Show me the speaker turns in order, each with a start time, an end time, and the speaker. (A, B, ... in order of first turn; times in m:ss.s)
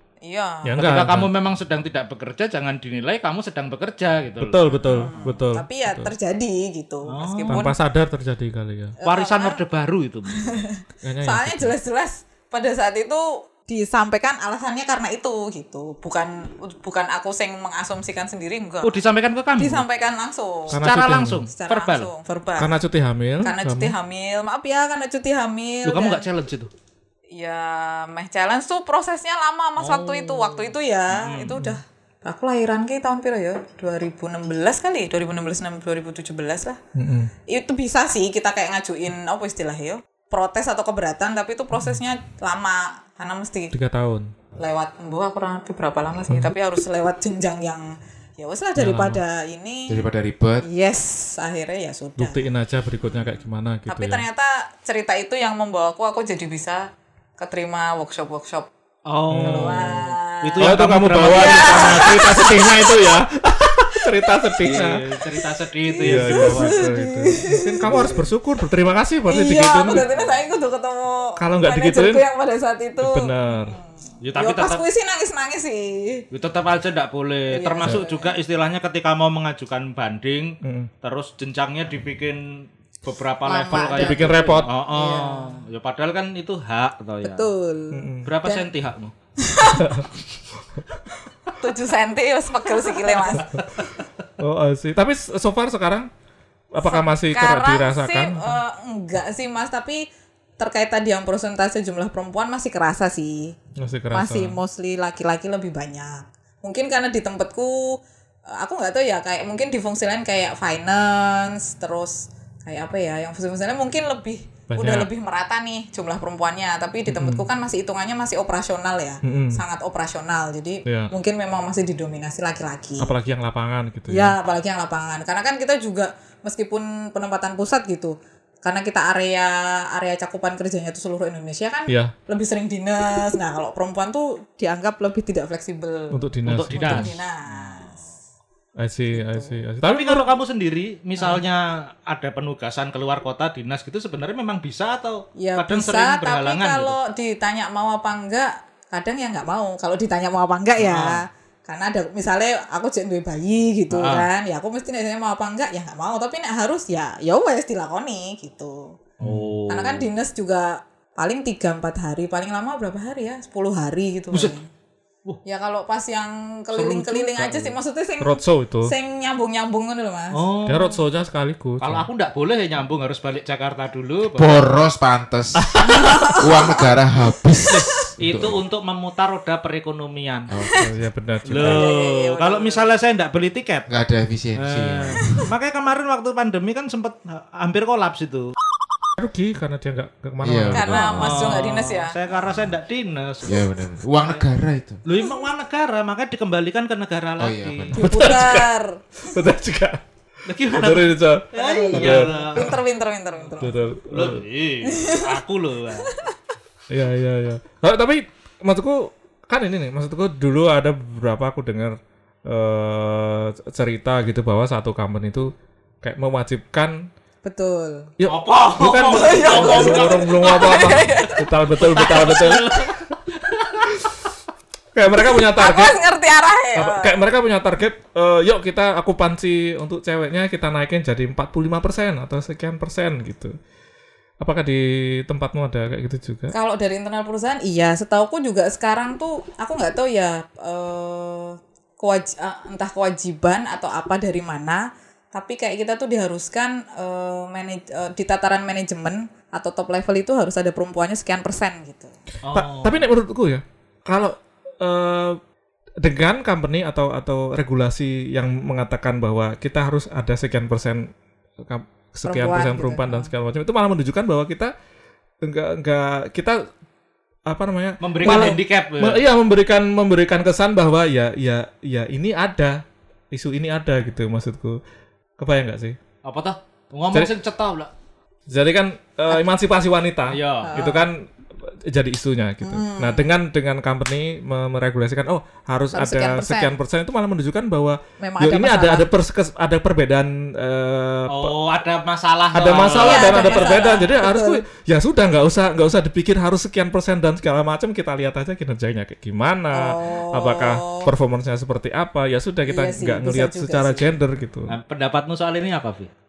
0:00.2-0:00.8 A
0:00.6-0:01.3 B
0:00.8-0:05.1 C
0:04.4-0:06.1 B
0:04.7-0:07.8 A
0:07.1-0:07.7 C
0:07.5-0:09.0 B
0:09.0-0:09.6 A
0:09.0-0:10.7 C
0:10.4-0:19.0 A
0:11.0-0:11.7 B
0:18.8-0:19.8 C
0:19.6-0:20.8 A
0:20.7-0:21.4 B
0:20.7-0:22.1 C
0:21.5-0:22.7 A
0:22.6-0:23.9 B
0:23.4-0:26.2 A
0:25.8-0:26.7 C
0:27.3-0:36.8 A
0:29.8-0:31.6 C
0:37.0-0:37.3 B
0:37.5-0:43.7 A
0:43.7-0:44.3 B
0:44.6-0:50.0 A
0:48.8-0:49.2 B
0:49.9-0:50.6 D
0:50.6-0:52.4 A
0:52.2-0:54.2 B
0:53.9-0:56.8 A
0:57.4-0:58.7 A
0:59.1-1:02.1 C
0:59.3-1:00.1 B
0:59.4-1:00.8 A
1:00.6-1:05.0 B
1:01.3-1:03.0 A
1:04.6-1:06.9 C
1:05.8-1:08.2 A
1:06.0-1:10.1 B
1:09.3-1:16.2 A
1:10.0-1:10.3 C
1:11.4-1:12.2 B
1:13.0-1:13.8 B
1:14.2-1:14.8 C
1:16.3-1:27.5 C
1:17.5-1:18.3 A
1:20.6-1:20.9 B
1:23.4-1:25.6 A
1:23.7-1:24.7 B
1:27.2-1:28.7 A
1:27.9-1:28.3 B
1:28.2-1:29.1 C
1:29.4-1:30.0 A
1:29.8-1:30.1 B
1:31.5-1:33.5 A
1:33.1-1:34.0 C
1:33.3-1:33.6 B
1:34.4-1:36.1 B
1:36.7-1:38.6 B
1:36.8-1:40.0 A
1:40.6-1:43.6 A
1:43.8-1:44.6 B
1:44.1-1:48.0 A
1:48.5-2:03.1 A
1:54.7-1:55.1 B
1:57.1-1:57.4 B
1:59.2-1:59.6 B
2:00.9-2:01.1 B
2:03.0-2:04.4 B
2:04.1-2:16.2 A
2:11.9-2:12.1 B
2:16.1-2:17.1 B
2:16.5-2:17.2 C
2:16.7-2:18.0 A
2:18.8-2:20.3 B
2:19.1-2:19.6 A
2:19.8-2:27.0 C
2:25.4-2:38.9 A
2:30.8-2:31.2 C
2:34.0-2:34.3 C
2:39.2-2:39.5 B
2:39.2-2:40.1 C
2:39.7-2:44.7 A
2:45.4-2:50.4 A
2:46.7-2:47.3 C
2:47.4-2:47.7 D
2:48.2-2:48.9 B
2:50.4-2:51.0 C
2:50.7-2:52.1 B
2:51.8-2:54.7 C
2:54.3-2:58.6 D
2:55.9-2:56.8 A
2:57.7-3:00.5 C
3:00.5-3:00.8 D
3:00.8-3:01.8 B
3:01.4-3:03.9 C
3:01.6-3:02.9 A
3:03.9-3:05.4 D
3:04.6-3:08.5 C
3:09.2-3:11.5 B
3:10.4-3:11.3 D
3:10.8-3:12.2 A
3:11.2-3:13.7 C
3:13.4-3:15.0 D
3:15.1-3:18.0 C
3:17.4-3:18.4 D
3:17.9-3:18.7 B
3:18.0-3:19.0 A
3:19.2-3:20.0 B
3:20.5-3:22.7 C
3:20.7-3:22.8 B
3:21.6-3:23.8 A
3:23.6-3:24.4 B
3:24.1-3:26.1 C
3:24.9-3:25.3 A
3:26.0-3:26.3 A
3:26.9-3:35.5 B
3:36.0-3:37.1 B
3:37.4-3:38.1 A
3:38.2-3:42.7 B
3:38.3-3:43.9 C
3:39.1-3:41.4 A
3:44.9-3:46.0 B
3:45.2-3:47.2 A
3:46.8-3:53.5 B
3:54.4-3:56.5 B
3:56.5-4:12.1 A
4:12.4-4:13.1 C
4:12.5-4:15.4 B
4:16.0-4:21.1 B
4:21.7-4:24.7 B
4:22.2-4:23.3 A
4:25.4-4:26.6 B
4:27.5-4:32.8 B
4:28.0-4:29.2 C
4:28.2-4:28.6 A
4:33.3-4:34.8 B
4:35.4-4:36.0 B
4:36.2-4:37.9 C
4:38.5-4:51.5 B
4:40.3-4:40.8 C
4:40.6-4:41.1 A
4:42.6-4:43.3 A
4:45.9-4:46.8 A
4:48.2-4:49.0 A
4:51.3-4:54.2 C
4:52.5-5:04.8 B
4:53.0-4:54.6 A
4:59.7-5:01.1 A
5:02.7-5:04.1 A
5:04.7-5:06.1 C